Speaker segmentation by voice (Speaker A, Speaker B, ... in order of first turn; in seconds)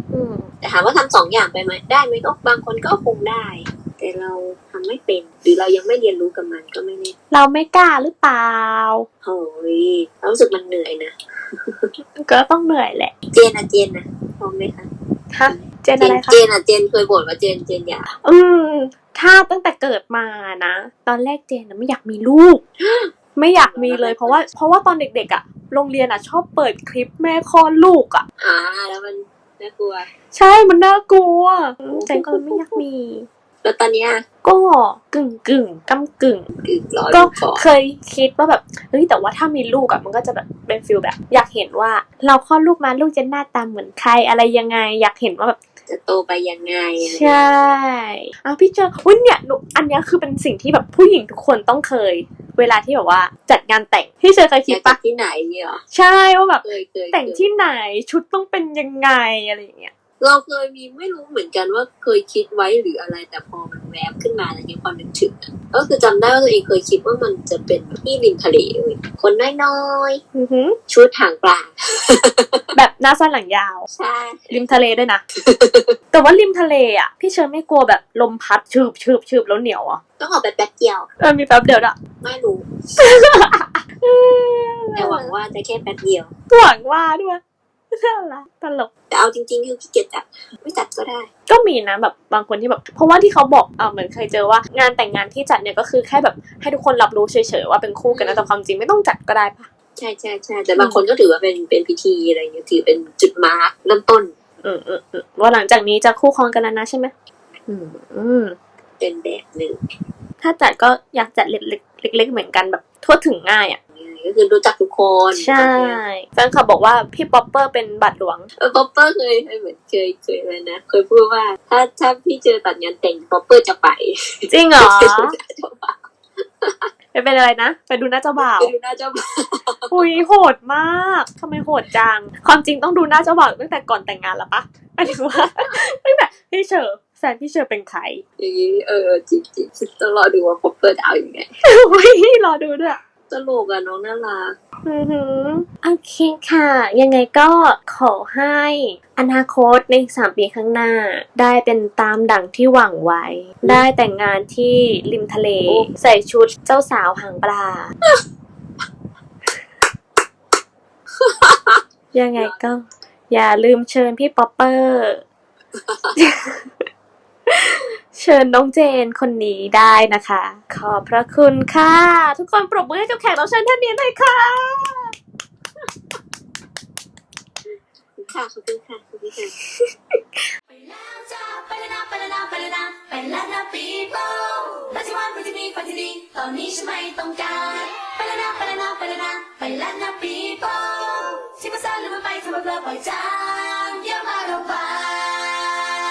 Speaker A: 0.1-0.5, 7.3-9.1, 12.2-13.1, 15.3-16.4, 18.2-22.6, 23.4-28.2, 30.3-33.3, 34.4-36.5, 37.1-45.6, 47.0-55.0, 55.9-59.9, 70.3-70.8, 72.7-73.9, 74.5-75.2, 76.1-80.0, 81.2-82.0, 83.0-85.3, 86.5-87.4, 87.9-88.9, 91.5-99.7, 100.8-101.0, 104.6-107.1, 107.7-108.6, 110.4-113.8, 115.3-118.5, 124.5-125.4, 127.1-128.7, 129.9-138.2, 141.6-143.0, 144.8-157.9, 162.1-165.2, 166.2-166.8, 167.5-175.1
Speaker B: 0.6-7.2, 9.2-11.9, 13.3-14.9, 15.5-18.1, 22.8-24.5, 28.4-30.1, 31.9-32.8, 33.6-34.2, 36.6-37.7, 45.9-47.5, 54.7-55.8, 56.6-57.5, 60.2-70.2, 70.9-72.6, 73.9-74.6, 75.4-75.9, 80.2-81.1, 82.2-82.7, 85.0-86.3, 89.1-91.3, 98.1-98.5, 100.0-104.3, 109.0-109.8, 113.9-116.0, 118.6-126.0, 126.6-126.9, 128.4-130.2, 135.4-135.8, 138.4-141.5, 143.3-144.6, 155.7-155.9, 161.2-161.8, 165.8-166.2, 178.2-179.5
Speaker C: 180.8-195.5